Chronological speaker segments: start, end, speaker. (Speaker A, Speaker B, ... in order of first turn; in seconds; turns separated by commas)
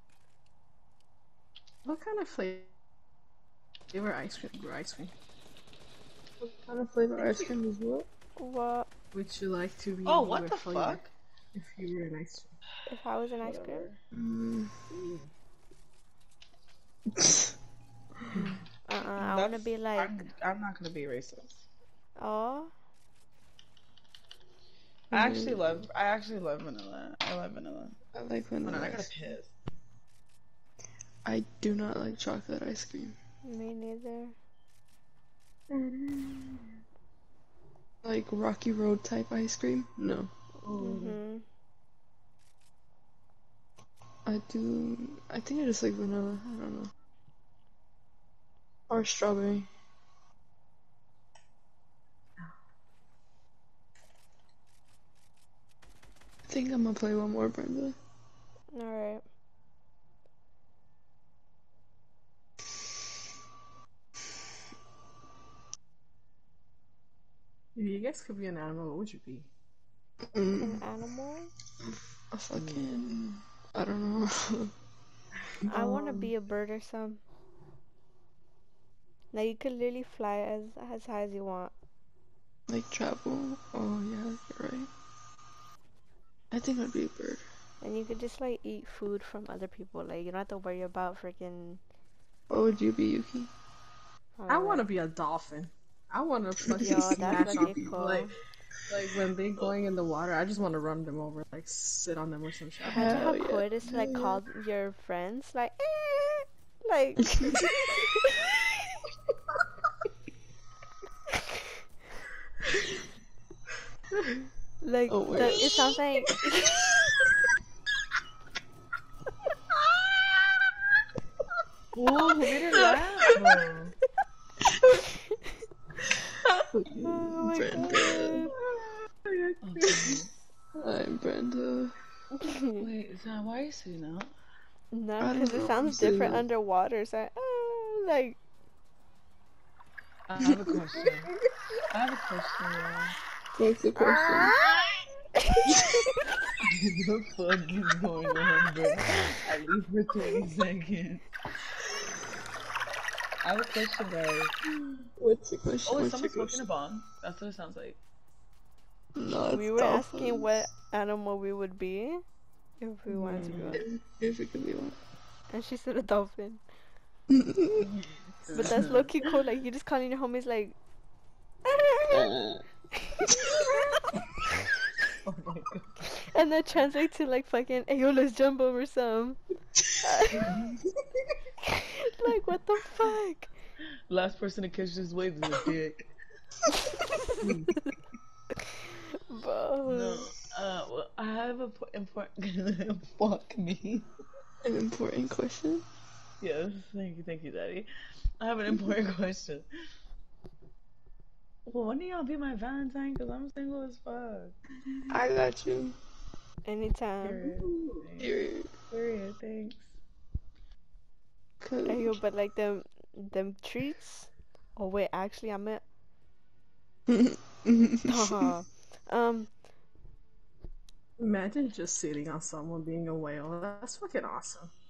Speaker A: 1.8-2.7, Speaker A: 3.9-5.1, Speaker B: 6.4-8.1, Speaker A: 7.2-7.5, Speaker C: 8.4-8.9, Speaker A: 9.1-12.5, Speaker D: 10.0-11.1, Speaker C: 12.9-13.9, Speaker D: 13.4-13.9, Speaker B: 14.1-14.7, Speaker A: 14.9-15.2, Speaker C: 18.9-20.3, Speaker D: 19.2-21.6, Speaker C: 22.2-22.7, Speaker B: 25.1-25.7, Speaker D: 25.1-27.9, Speaker B: 28.1-29.1, Speaker D: 28.6-29.5, Speaker B: 31.2-33.1, Speaker C: 33.4-34.4, Speaker A: 35.7-36.7, Speaker B: 38.0-40.3, Speaker A: 40.6-41.2, Speaker C: 40.7-41.4, Speaker B: 44.2-46.9, Speaker B: 48.9-49.7, Speaker B: 56.5-58.0, Speaker C: 58.7-59.2, Speaker A: 67.7-69.5, Speaker B: 70.3-70.8, Speaker C: 70.6-71.5, Speaker B: 72.3-74.7, Speaker A: 72.5-72.8, Speaker C: 75.7-77.2, Speaker A: 75.7-76.2, Speaker C: 79.3-81.7, Speaker B: 82.7-84.9, Speaker B: 86.5-87.4, Speaker C: 87.8-91.8, Speaker B: 92.5-93.5, Speaker C: 94.3-94.8, Speaker A: 94.5-98.3, Speaker B: 96.6-97.9, Speaker C: 96.8-98.3, Speaker A: 98.9-103.1, Speaker B: 102.8-104.4, Speaker C: 102.9-108.4, Speaker C: 114.8-116.7, Speaker B: 115.1-115.9, Speaker B: 116.6-117.0, Speaker D: 121.9-123.9, Speaker B: 126.7-128.5, Speaker C: 127.0-128.5, Speaker A: 128.5-130.2, Speaker D: 129.6-130.3, Speaker B: 130.7-131.9, Speaker C: 132.4-132.8, Speaker D: 132.8-134.3, Speaker C: 134.9-138.4, Speaker B: 135.2-136.4, Speaker D: 140.3-141.3, Speaker D: 141.9-143.1, Speaker B: 143.6-144.5, Speaker C: 143.9-144.9, Speaker C: 145.4-145.8, Speaker D: 146.6-151.2, Speaker D: 153.4-154.5, Speaker B: 155.2-156.6, Speaker D: 155.9-158.0, Speaker B: 159.2-160.5, Speaker C: 159.5-162.2, Speaker C: 162.8-163.8, Speaker A: 163.1-163.8, Speaker B: 163.7-165.0, Speaker C: 165.5-166.6, Speaker B: 167.3-167.8, Speaker A: 167.8-168.8, Speaker D: 168.5-169.1, Speaker C: 168.5-170.8, Speaker C: 171.7-172.3, Speaker B: 172.1-172.6, Speaker C: 173.2-173.9, Speaker D: 175.2-176.1, Speaker C: 176.3-179.4, Speaker C: 180.0-180.5, Speaker D: 180.4-180.8, Speaker C: 182.0-183.5, Speaker D: 184.1-186.1, Speaker A: 187.4-187.7, Speaker C: 189.2-190.3, Speaker D: 189.8-194.1, Speaker B: 194.6-195.8, Speaker D: 196.4-197.9, Speaker D: 198.4-199.7, Speaker D: 201.7-204.5, Speaker B: 205.1-205.9, Speaker C: 206.6-207.4, Speaker D: 207.2-208.3, Speaker A: 207.5-208.1, Speaker B: 208.2-208.7, Speaker D: 208.9-209.9, Speaker B: 211.6-212.2, Speaker C: 211.8-215.8, Speaker B: 217.1-218.1, Speaker C: 218.1-219.5, Speaker A: 221.2-224.7